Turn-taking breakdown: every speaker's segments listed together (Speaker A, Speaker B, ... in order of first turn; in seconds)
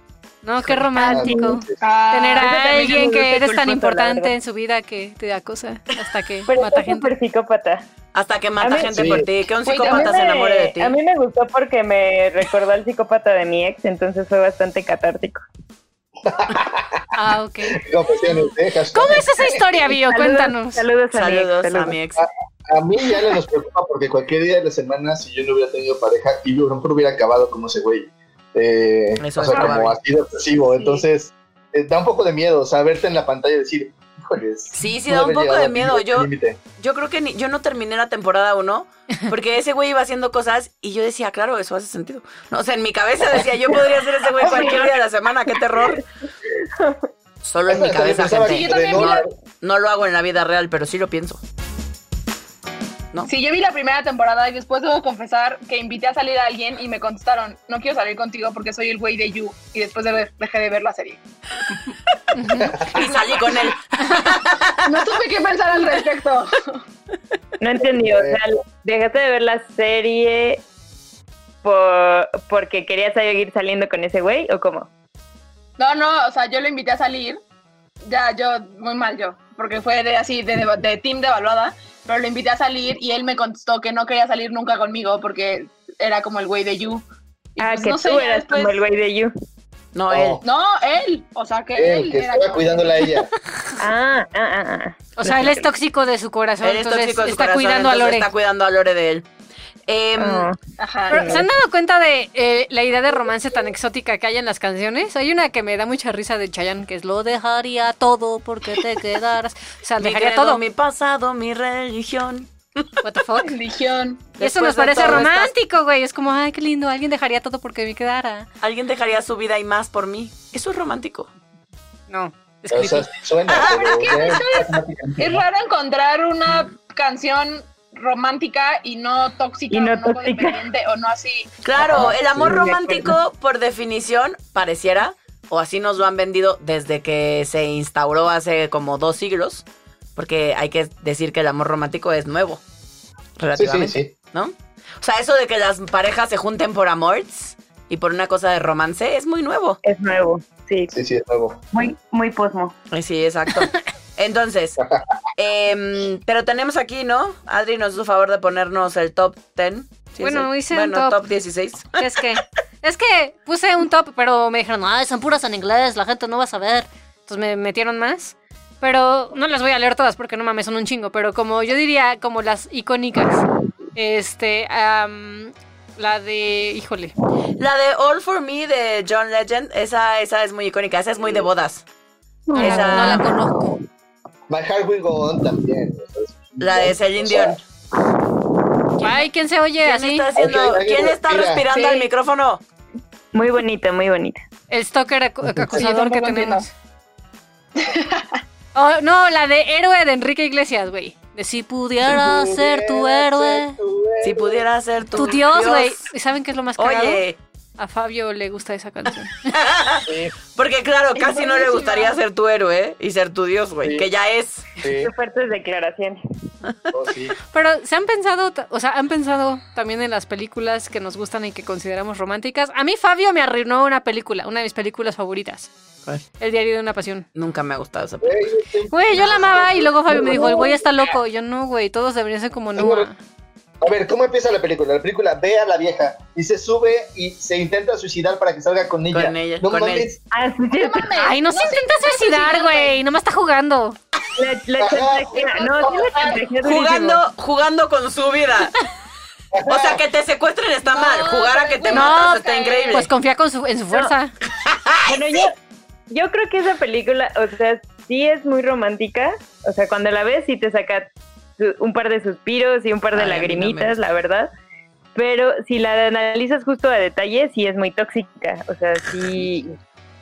Speaker A: 0.4-7.1, 17.1-17.8, 18.9-20.8, 62.3-62.8, 95.2-98.3, 101.1-110.6, 113.0-113.5, 114.4-118.5, 122.1-123.1, 160.2-161.2, 161.9-177.1, 182.6-183.8, 189.0-190.3, 194.7-196.7, 198.7-203.8, 205.1-207.2, 207.8-209.5, 217.5-225.7, 226.4-227.2, 228.9-233.2, 241.2-244.0, 251.9-254.3
Speaker B: 0.9-1.6, 2.4-4.3, 6.5-7.8, 8.6-9.1, 9.9-15.4, 20.1-21.9, 44.4-44.9, 45.7-46.0, 46.6-47.0, 67.6-70.6, 71.6-74.9, 87.6-89.3, 93.8-95.7, 100.2-100.6, 101.1-101.5, 129.7-130.6, 131.9-133.1, 149.8-150.9, 151.7-152.7, 182.5-183.3, 193.3-194.4, 211.2-211.6, 215.0-216.2, 230.1-230.7, 240.3-241.2, 244.3-247.2, 255.1-255.5, 256.1-264.5, 265.1-269.8
Speaker C: 1.0-1.8, 8.9-9.3, 16.2-17.1, 17.7-19.6, 22.2-36.6, 47.7-49.3, 62.6-63.0, 68.0-68.4, 90.1-90.4, 91.7-93.3, 122.7-125.4, 131.8-132.7, 143.6-144.1, 150.9-151.6, 184.5-187.6, 190.3-191.6, 195.5-195.7, 202.0-204.6, 210.1-210.3, 213.8-214.1, 214.8-215.1, 216.9-217.3, 228.2-230.8, 232.8-233.1, 233.8-240.2, 244.8-246.3, 249.5-250.0
Speaker D: 1.8-2.6, 9.6-10.3, 48.4-49.3, 53.2-61.2, 63.0-63.7, 64.8-66.8, 75.8-77.4, 78.0-87.0, 87.5-88.8, 90.4-93.1, 100.8-101.4, 113.4-114.3, 123.5-131.5, 191.7-192.1, 195.7-196.7, 197.8-198.4, 240.7-243.0, 245.4-246.5, 250.8-253.1
Speaker E: 8.1-10.9, 21.1-22.2, 29.2-29.9, 34.7-46.0, 47.4-51.4, 62.9-64.9, 89.9-90.4, 96.6-99.2, 99.9-100.5, 110.0-112.9, 114.4-115.5, 118.6-121.3, 123.5-123.9, 131.6-139.6, 140.2-142.6, 143.4-149.8, 152.9-154.8, 155.3-162.0, 177.6-181.8, 182.6-183.3, 186.6-187.6, 189.8-192.6, 204.2-206.1, 206.8-207.4, 209.5-214.7, 227.3-228.5, 239.1-240.1, 246.6-248.7, 249.7-253.1, 254.6-255.2, 263.1-263.9